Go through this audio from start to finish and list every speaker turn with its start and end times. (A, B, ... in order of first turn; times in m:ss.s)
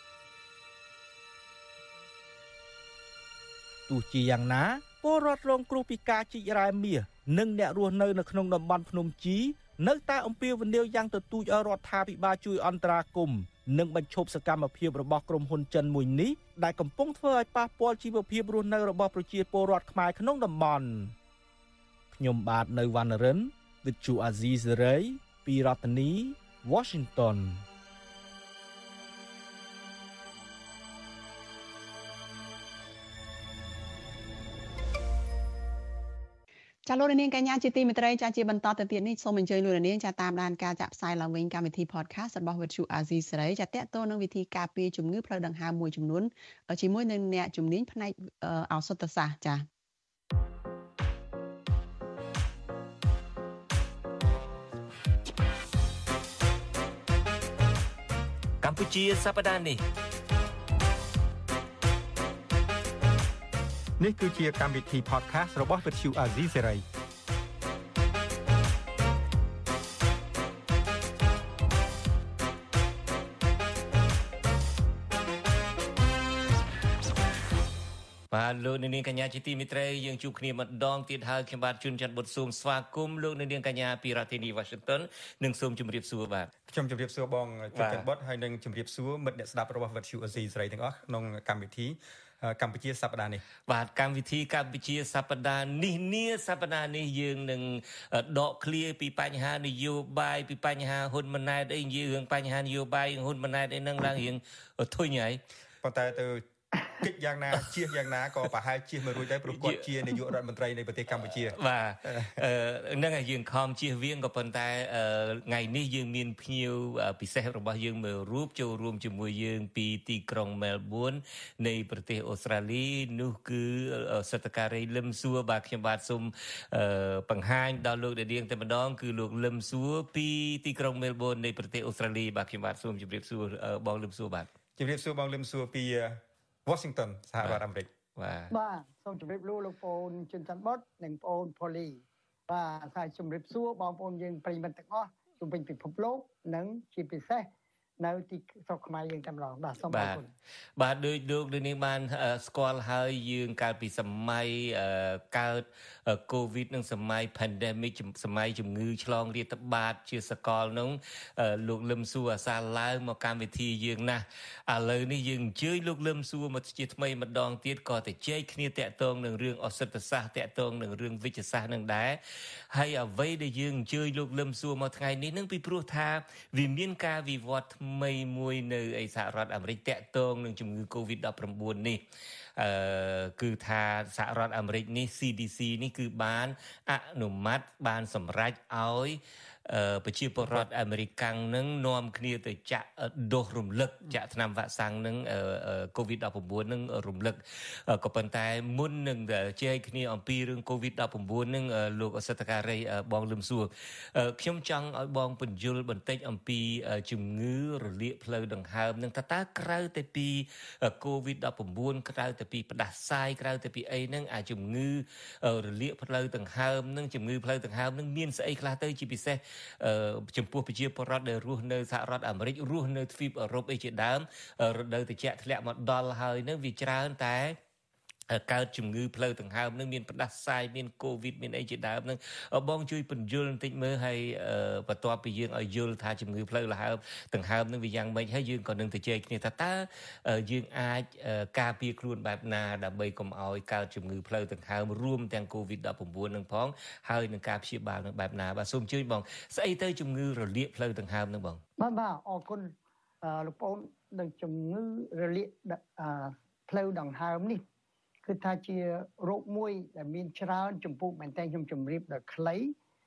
0:03.9-0:21.1 A
0:22.1-0:27.6 A
0:36.9-0:49.7 B
0:58.6-0:59.8 C
1:04.0-1:06.8 D
1:18.3-1:26.5 C
1:26.7-1:33.4 D
1:27.7-1:28.1 C
1:33.7-1:45.4 C
1:45.8-1:52.3 D
1:49.4-1:49.9 C
1:51.2-2:14.5 C
2:14.8-2:17.9 D
2:18.2-2:18.5 C
2:18.5-2:27.5 E
2:28.0-2:30.3 E
2:29.9-2:30.2 C
2:30.8-2:52.2 C
2:52.7-3:02.0 C
3:02.6-3:47.6 C
3:10.4-3:10.7 D
3:48.3-4:11.6 C
4:11.8-4:17.6 E
4:18.2-4:22.7 E